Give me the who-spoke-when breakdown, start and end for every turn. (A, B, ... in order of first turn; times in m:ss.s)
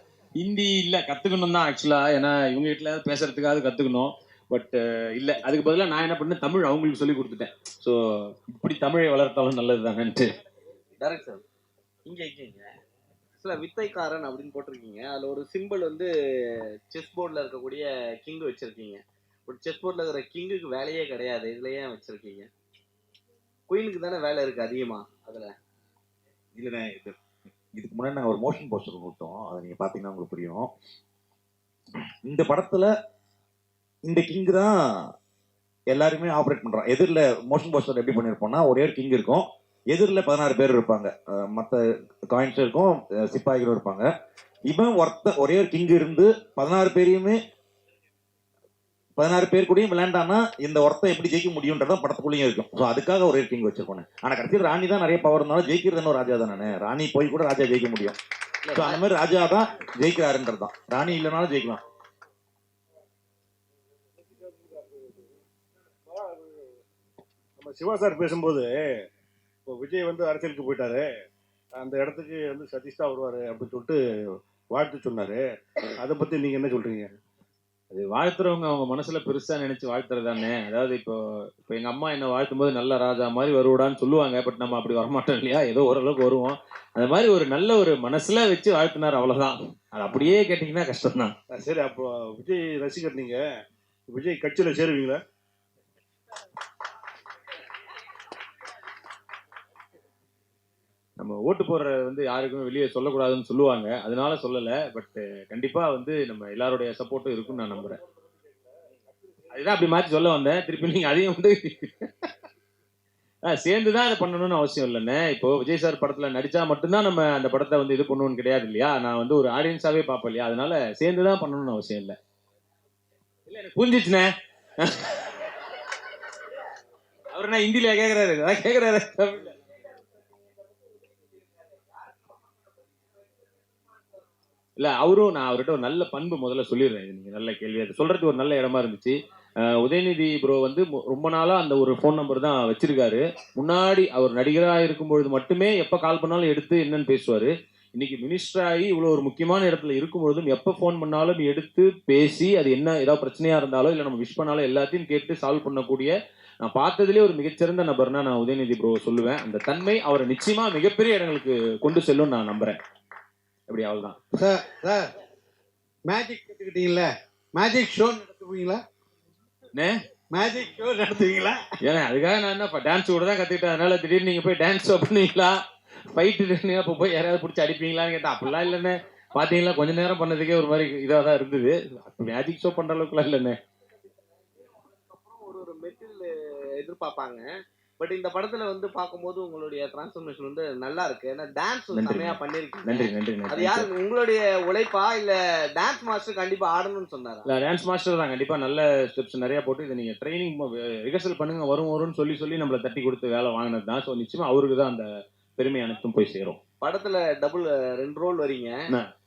0:00.4-0:10.3 A
0:11.0-0:11.4 B
0:12.0-0:12.7 B
0:13.4-0:22.5 B
0:23.7-0:25.5 B
0:26.6-0:27.2 C
0:27.8-0:30.7 C
0:32.2-0:32.9 C
0:34.0-0:35.1 C
0:35.9-0:44.1 C
0:44.7-0:47.4 C
0:49.2-0:58.2 C
0:58.6-0:59.0 B
0:58.7-1:01.8 C
1:04.3-1:05.3 D
1:06.1-1:06.6 D
1:07.6-1:09.0 D
1:09.6-1:11.1 D
1:11.8-1:14.0 D
1:14.7-1:17.1 D
1:17.9-1:31.3 A
1:31.5-1:33.4 D
1:34.1-1:35.2 D
1:41.2-1:48.0 A
1:49.5-1:52.3 A
1:53.4-2:02.2 A
2:03.5-2:05.4 A
2:07.3-2:09.6 A
2:14.8-2:42.8 A
2:43.7-2:44.2 A
2:44.3-2:45.1 E
2:46.0-2:48.8 E
2:49.7-2:50.0 A
2:50.3-2:51.7 E
2:51.8-3:03.6 A
3:05.1-3:07.5 B
3:08.0-3:17.5 B
3:11.9-3:13.9 A
3:17.4-3:26.6 A
3:26.8-3:28.8 B